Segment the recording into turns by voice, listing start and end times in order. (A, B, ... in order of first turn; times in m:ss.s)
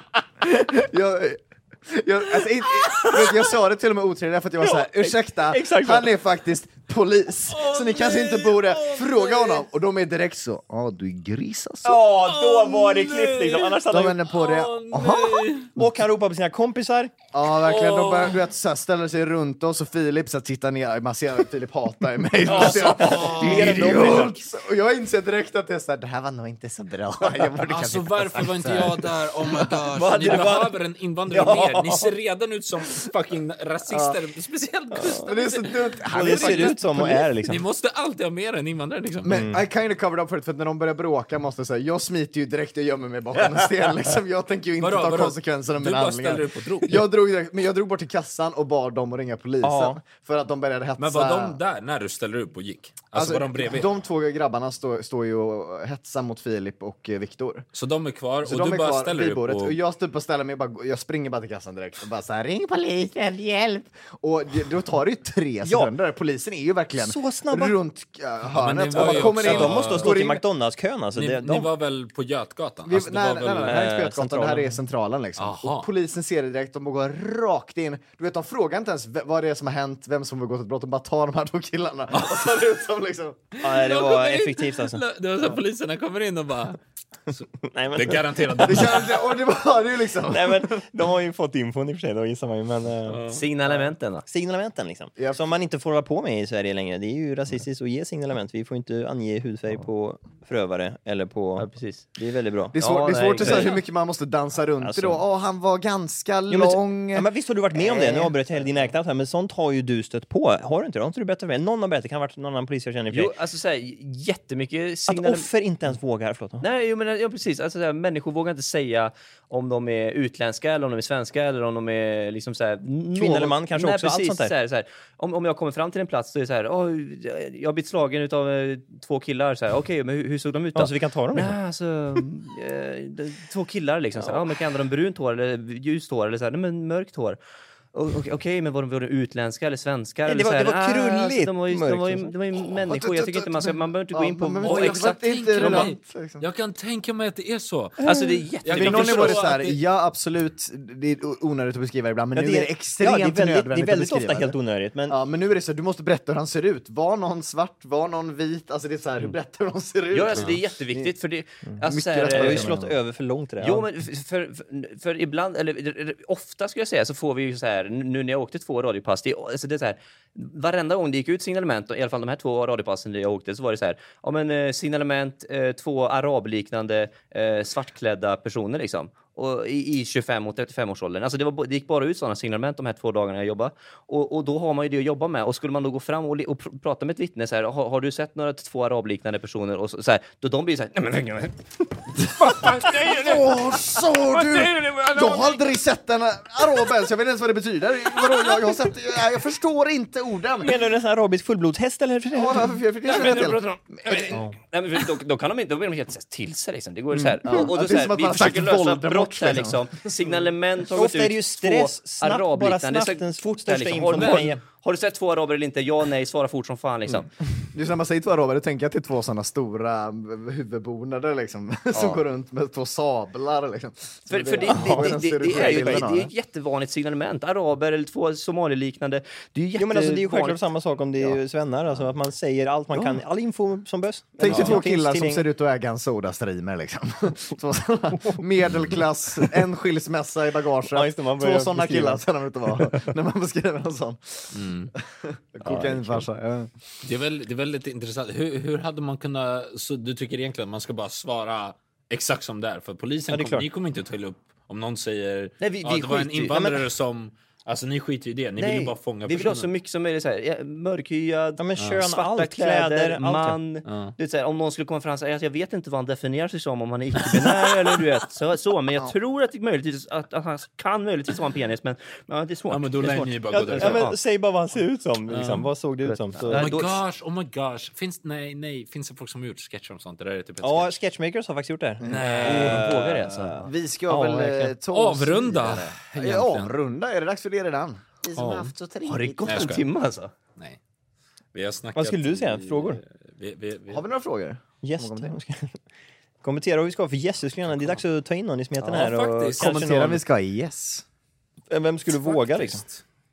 0:00.4-0:12.0 A
0:04.6-0:06.1 B
0:07.5-0:09.6 C
0:11.8-0:14.2 B
0:12.1-0:15.7 C
0:13.9-0:15.9 A
0:15.8-0:17.1 B
0:17.3-0:29.5 A
0:17.4-0:18.4 C
0:22.5-0:24.1 C
0:22.5-0:24.3 B
0:27.6-0:39.5 C
0:29.6-0:30.7 B
0:31.3-0:32.1 B
0:34.9-0:35.3 B
0:35.2-0:37.3 A
0:36.1-0:37.6 B
0:39.2-0:51.6 A
0:39.3-0:39.6 B
0:44.8-0:47.0 C
0:49.6-0:50.0 B
0:51.0-0:53.9 C
0:53.1-0:57.6 A
0:57.7-0:59.8 C
0:58.4-1:10.4 A
1:05.6-1:05.9 B
1:07.0-1:07.8 B
1:08.5-1:10.1 C
1:08.9-1:11.7 B
1:11.1-1:13.8 C
1:12.8-1:23.4 A
1:13.5-1:14.8 B
1:15.4-1:15.9 C
1:22.1-1:22.7 C
1:23.6-1:26.8 C
1:23.6-1:25.0 B
1:27.3-1:29.3 C
1:27.6-1:28.6 B
1:28.6-1:30.7 A
1:30.3-1:33.2 B
1:33.1-1:33.4 C
1:33.3-1:34.2 D
1:34.3-1:42.8 B
1:41.6-1:42.1 D
1:42.7-1:47.3 A
1:42.8-1:43.8 D
1:43.4-1:43.7 B
1:44.8-1:45.2 B
1:46.5-1:53.3 B
1:47.8-1:48.9 D
1:53.1-1:55.5 D
1:55.1-1:56.6 B
1:56.6-2:17.4 D
2:03.1-2:04.5 B
2:10.7-2:11.5 B
2:17.9-2:25.9 D
2:20.3-2:22.3 B
2:22.7-2:26.4 A
2:24.6-2:28.0 C
2:28.0-2:29.4 D
2:28.6-2:29.8 C
2:28.7-2:41.1 A
2:32.4-2:35.1 B
2:40.1-2:42.8 D
2:41.8-2:42.9 A
2:42.3-2:43.8 B
2:43.6-3:13.0 D
3:12.2-3:20.8 A
3:12.4-3:13.5 C
3:14.3-3:15.5 D
3:20.6-3:22.7 B
3:22.3-3:24.4 A
3:23.1-3:37.3 D
3:27.4-3:30.0 A
3:30.9-3:34.6 B
3:37.7-3:46.3 A
3:41.9-3:42.2 D
3:44.3-3:51.4 D
3:44.7-3:46.0 B
3:49.8-3:55.4 B
3:54.4-4:06.7 A
3:54.5-3:54.8 C
4:00.9-4:02.2 B
4:04.5-4:04.9 C
4:05.6-4:06.2 D
4:07.0-4:19.7 C
4:13.3-4:13.6 B
4:15.6-4:16.6 D
4:16.5-4:16.8 B
4:18.6-4:34.2 D
4:21.6-4:23.6 B
4:23.8-4:24.1 C
4:32.7-4:34.1 C
4:33.5-4:36.6 B
4:35.3-4:35.7 C
4:36.0-4:37.0 D
4:36.5-4:41.0 C
4:40.6-4:44.7 B
4:42.0-4:42.5 A
4:42.0-4:42.8 C
4:42.2-4:43.6 D
4:43.6-4:49.6 A
4:44.9-4:46.7 C
4:48.3-4:48.7 C
4:48.9-4:50.3 D
4:49.4-4:49.8 C
4:51.5-4:54.0 C
4:52.0-4:53.0 B
4:53.9-4:55.4 A
4:54.8-4:55.8 B
4:56.4-5:00.2 B
4:58.8-4:59.0 D
4:58.9-4:59.8 C
4:59.6-5:01.0 A
5:01.7-5:02.8 B
5:02.1-5:03.0 C